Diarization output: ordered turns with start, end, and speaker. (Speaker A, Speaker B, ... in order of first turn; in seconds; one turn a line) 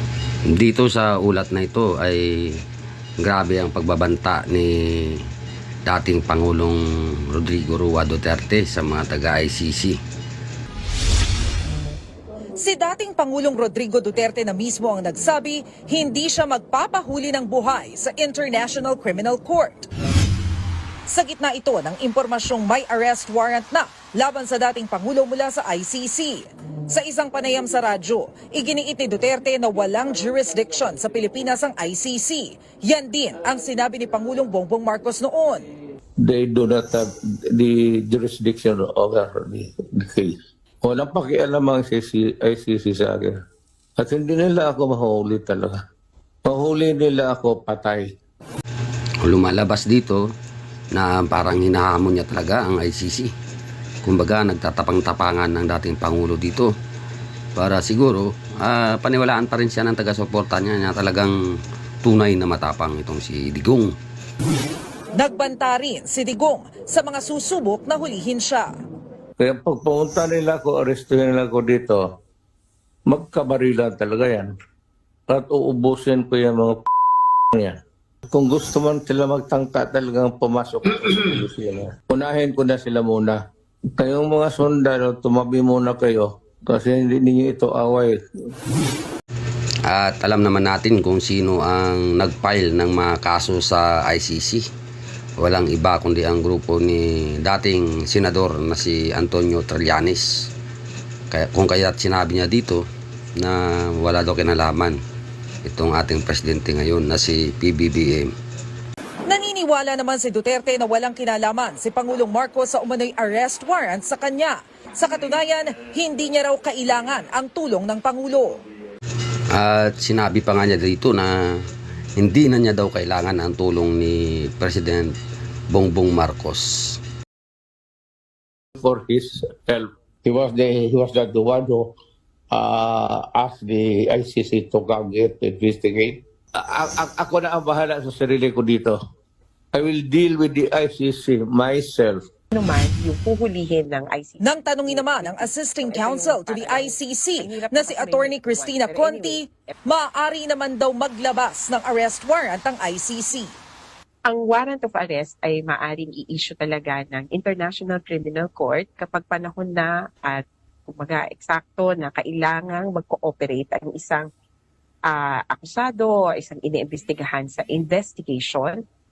Speaker A: 0.5-2.6
Speaker A: 3.2-5.2
Speaker A: 5.9-10.0
Speaker B: 12.6-19.9
Speaker B: 21.1-35.6
Speaker C: 36.2-43.4
Speaker C: 44.0-45.8
Speaker C: 46.5-48.1
Speaker A: 49.2-50.2
Speaker A: 50.9-53.3
Speaker A: 54.0-56.7
Speaker A: 57.6-61.3
Speaker A: 62.0-63.9
Speaker B: 65.2-68.7
Speaker C: 69.4-72.0
Speaker C: 73.1-74.5
Speaker C: 75.3-76.8
Speaker C: 78.3-83.4
Speaker C: 84.0-88.2
Speaker A: 89.9-94.6
Speaker A: 95.4-100.3
Speaker A: 101.3-102.8
Speaker A: 103.4-105.0
Speaker A: 105.7-108.3
Speaker B: 109.3-118.5
Speaker A: 119.5-121.3
Speaker A: 122.2-125.2
Speaker A: 125.7-127.0
Speaker C: 128.8-131.9
Speaker C: 132.5-139.0
Speaker C: 139.7-142.2
Speaker D: 142.5-149.5
Speaker B: 144.4-153.6
Speaker D: 154.3-164.3
Speaker D: 165.1-168.8